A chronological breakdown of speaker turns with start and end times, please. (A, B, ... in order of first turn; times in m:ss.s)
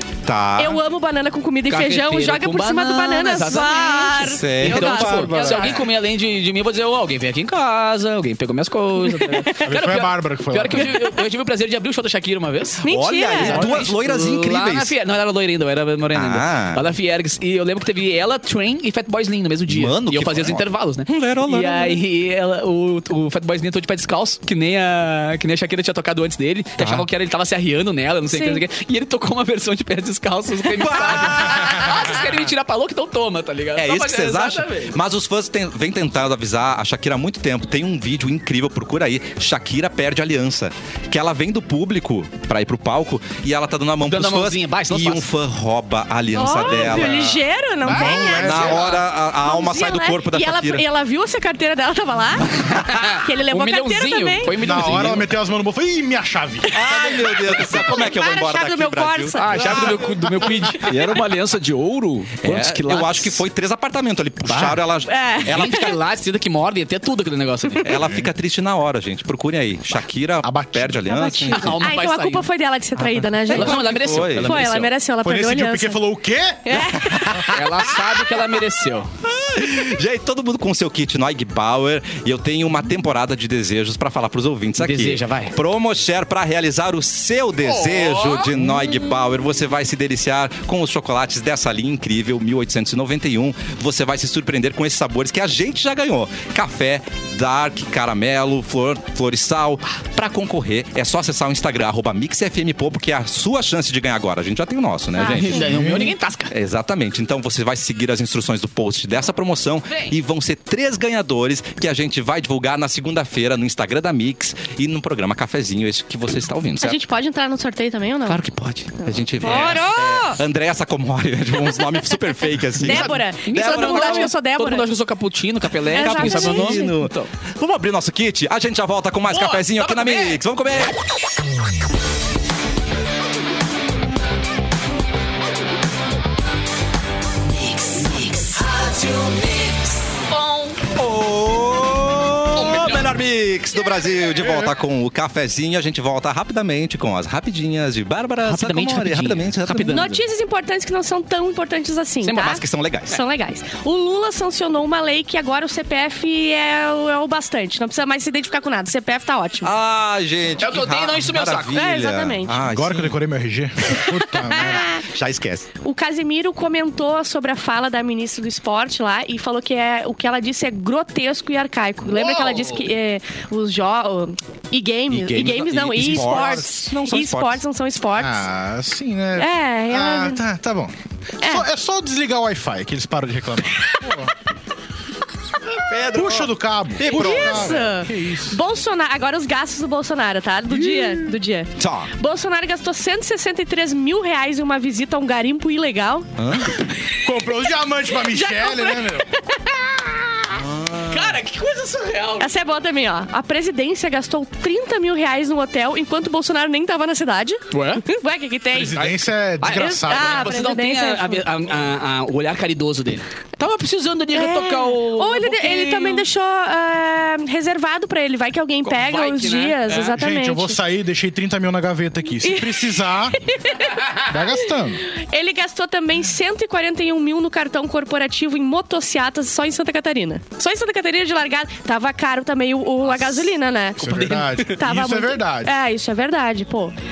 0:00.2-0:00.8 A
0:00.6-0:05.8 B
0:01.7-0:12.8 C
0:04.2-0:05.8 A
0:09.0-0:09.6 B
0:09.6-0:11.0 D
0:12.8-0:13.6 B
0:12.8-0:14.9 A
0:13.4-0:35.0 C
0:13.5-0:13.8 D
0:16.1-0:16.8 A
0:19.7-0:22.0 A
0:26.8-0:27.1 A
0:28.3-0:28.6 B
0:30.8-0:32.2 A
0:33.8-0:50.8 A
0:44.0-0:45.2 C
0:46.3-0:54.6 B
0:47.8-0:49.0 D
0:52.8-0:55.3 C
0:54.6-0:56.9 D
0:56.7-0:59.7 A
0:56.9-1:00.1 B
0:59.3-1:01.1 C
0:59.5-1:00.7 D
1:00.8-1:03.4 E
1:02.4-1:06.0 A
1:05.1-1:05.9 B
1:05.5-1:07.9 C
1:07.8-1:11.8 A
1:08.0-1:08.3 D
1:10.4-1:11.5 D
1:11.3-1:16.0 B
1:11.5-1:12.5 C
1:13.5-1:14.6 A
1:13.5-1:14.9 C
1:15.2-1:16.9 D
1:16.6-1:17.5 B
1:16.9-1:18.1 A
1:17.5-1:19.1 C
1:19.2-1:57.0 A
1:24.8-1:25.5 C
1:27.6-1:28.6 C
1:45.2-1:46.5 C
1:45.2-1:45.6 B
1:45.6-1:46.1 D
1:49.9-1:50.2 C
1:56.8-1:58.4 B
1:58.2-2:04.3 A
1:59.3-2:00.4 B
1:59.4-1:59.8 C
2:02.8-2:04.9 B
2:02.8-2:07.3 C
2:05.9-2:06.9 B
2:06.0-2:10.9 A
2:09.3-2:10.4 C
2:17.6-2:20.8 C
2:20.9-2:30.2 A
2:22.5-2:23.1 C
2:28.4-2:30.1 C
2:29.9-2:39.7 B
2:32.2-2:32.5 C
2:32.3-2:33.2 A
2:39.6-2:43.2 A
2:40.6-2:41.8 C
2:41.7-2:42.5 B
2:42.6-2:44.9 D
2:43.9-2:45.0 B
2:44.9-2:45.7 A
2:45.8-2:58.4 B
2:52.1-2:52.8 C
2:55.1-2:57.6 A
2:58.2-3:04.3 D
2:59.4-3:00.4 B
3:05.8-3:07.8 A
3:06.0-3:08.6 D
3:07.0-3:16.3 B
3:11.8-3:12.1 A
3:16.4-3:16.8 A
3:17.2-3:19.3 D
3:18.1-3:20.5 B
3:20.5-3:21.4 A
3:21.0-3:22.5 C
3:22.4-3:29.0 B
3:27.7-3:28.0 C
3:28.7-3:30.5 D
3:28.9-3:36.2 C
3:29.7-3:31.5 B
3:34.3-3:40.8 B
3:38.8-3:40.1 C
3:40.1-3:43.4 D
3:42.4-3:44.3 B
3:44.2-3:45.0 D
3:45.1-3:56.9 B
3:54.0-3:55.7 D
3:54.0-3:54.6 C